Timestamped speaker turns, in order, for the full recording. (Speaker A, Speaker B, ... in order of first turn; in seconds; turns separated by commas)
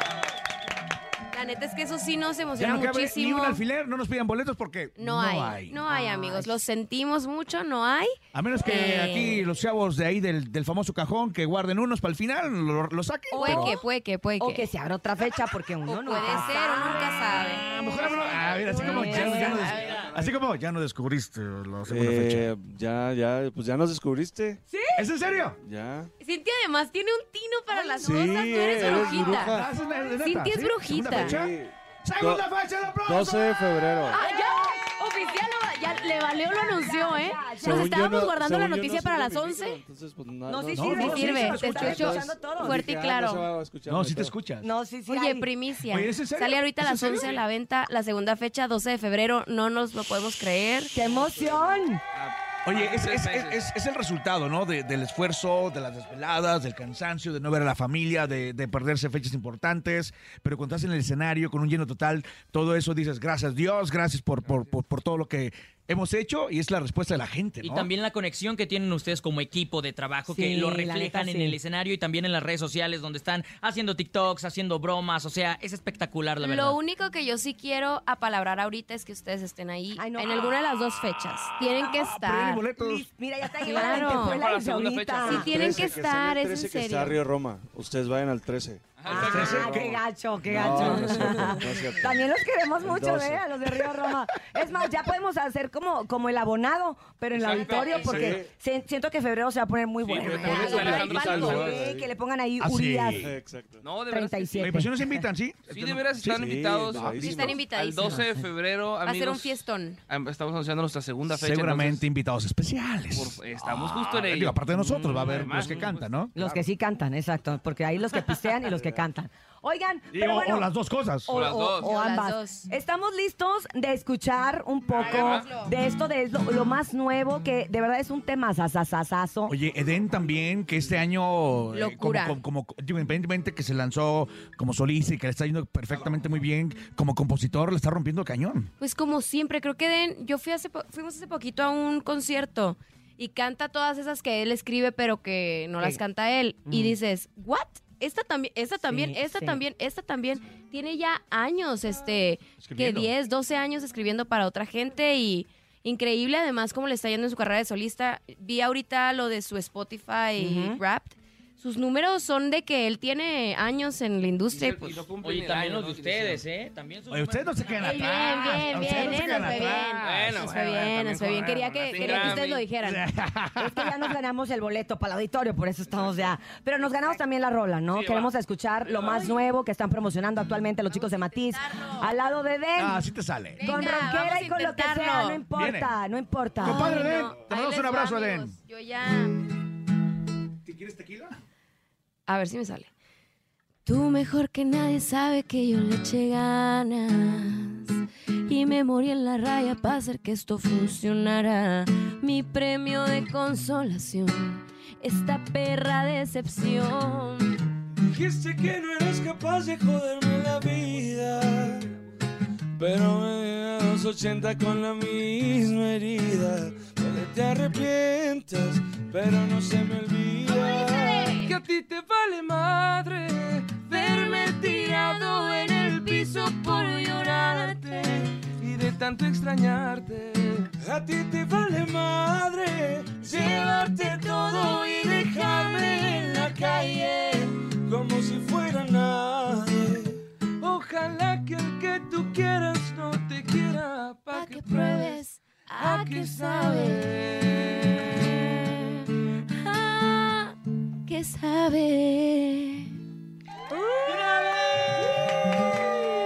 Speaker A: 1.3-3.6, Speaker B: 2.6-5.8, Speaker A: 5.0-9.4, Speaker C: 5.9-6.6, Speaker B: 8.3-13.8, Speaker C: 13.3-13.8, Speaker A: 13.3-14.7, Speaker C: 14.4-17.3, Speaker A: 15.9-20.0, Speaker B: 17.2-22.5, Speaker C: 18.8-19.7, Speaker D: 19.5-20.4, Speaker D: 21.9-24.6, Speaker C: 24.7-25.0, Speaker B: 25.0-25.6, Speaker D: 25.6-26.1, Speaker A: 26.2-29.5, Speaker C: 27.7-28.3, Speaker D: 28.0-29.7, Speaker B: 28.7-31.5, Speaker A: 30.2-31.3, Speaker D: 31.1-32.5, Speaker B: 32.0-33.6, Speaker D: 33.0-34.2, Speaker A: 34.1-39.8, Speaker C: 34.2-34.8, Speaker C: 36.7-38.0, Speaker D: 37.5-44.4, Speaker C: 40.5-42.8, Speaker B: 40.7-42.3, Speaker A: 41.1-42.2, Speaker A: 42.7-43.5, Speaker B: 43.9-44.7, Speaker C: 44.6-45.5, Speaker A: 45.1-50.9, Speaker B: 45.8-47.3, Speaker C: 50.9-52.0, Speaker E: 51.2-53.7, Speaker B: 52.6-67.9, Speaker E: 64.4-64.8, Speaker F: 67.6-76.8, Speaker C: 70.3-71.6, Speaker A: 76.4-82.7, Speaker C: 80.0-80.6, Speaker B: 81.8-83.1, Speaker C: 82.8-85.5, Speaker A: 83.6-84.4, Speaker E: 83.7-86.0, Speaker D: 85.3-89.8, Speaker A: 85.3-87.2, Speaker E: 89.0-89.6, Speaker C: 89.1-103.2, Speaker B: 89.2-90.0, Speaker D: 90.4-92.2, Speaker D: 92.8-93.9, Speaker E: 97.3-98.4, Speaker D: 97.9-98.5, Speaker E: 100.0-101.7, Speaker D: 100.2-102.1, Speaker A: 100.5-101.6, Speaker B: 102.6-103.3, Speaker D: 103.1-103.8, Speaker E: 103.8-104.8, Speaker C: 104.1-105.2, Speaker B: 104.6-106.5, Speaker E: 105.7-112.0, Speaker D: 106.3-107.7, Speaker A: 107.2-108.3, Speaker C: 108.0-108.4, Speaker A: 109.0-110.0, Speaker B: 111.3-116.7, Speaker E: 113.1-114.6, Speaker C: 114.7-120.7, Speaker E: 115.1-116.2, Speaker B: 120.1-121.5, Speaker C: 121.3-129.5, Speaker E: 121.3-121.9, Speaker A: 121.8-122.7, Speaker E: 124.9-125.5, Speaker A: 125.0-125.7, Speaker B: 129.5-138.7, Speaker A: 131.7-132.4, Speaker A: 138.8-165.1, Speaker C: 146.7-147.0, Speaker C: 148.8-149.6, Speaker B: 152.6-153.1, Speaker C: 160.4-160.8, Speaker E: 164.5-166.4, Speaker F: 165.2-168.3, Speaker B: 167.1-170.6, Speaker A: 167.8-173.1, Speaker E: 169.2-172.7, Speaker B: 172.3-174.2, Speaker C: 173.6-183.1, Speaker E: 175.8-176.3, Speaker E: 177.9-178.3, Speaker E: 178.8-179.2, Speaker A: 180.9-182.1, Speaker B: 182.8-183.7, Speaker A: 183.6-185.4, Speaker C: 183.6-187.1, Speaker B: 185.5-185.9, Speaker B: 186.6-188.5, Speaker A: 186.6-189.5, Speaker B: 190.7-191.4, Speaker A: 192.3-192.9, Speaker A: 193.8-207.7, Speaker D: 208.0-211.9, Speaker D: 212.8-221.4, Speaker A: 220.5-221.5, Speaker E: 221.3-230.7, Speaker A: 224.0-228.2, Speaker D: 230.8-240.2, Speaker E: 233.3-236.9, Speaker A: 234.2-237.2, Speaker E: 240.6-245.3, Speaker A: 244.3-253.0, Speaker E: 245.8-247.8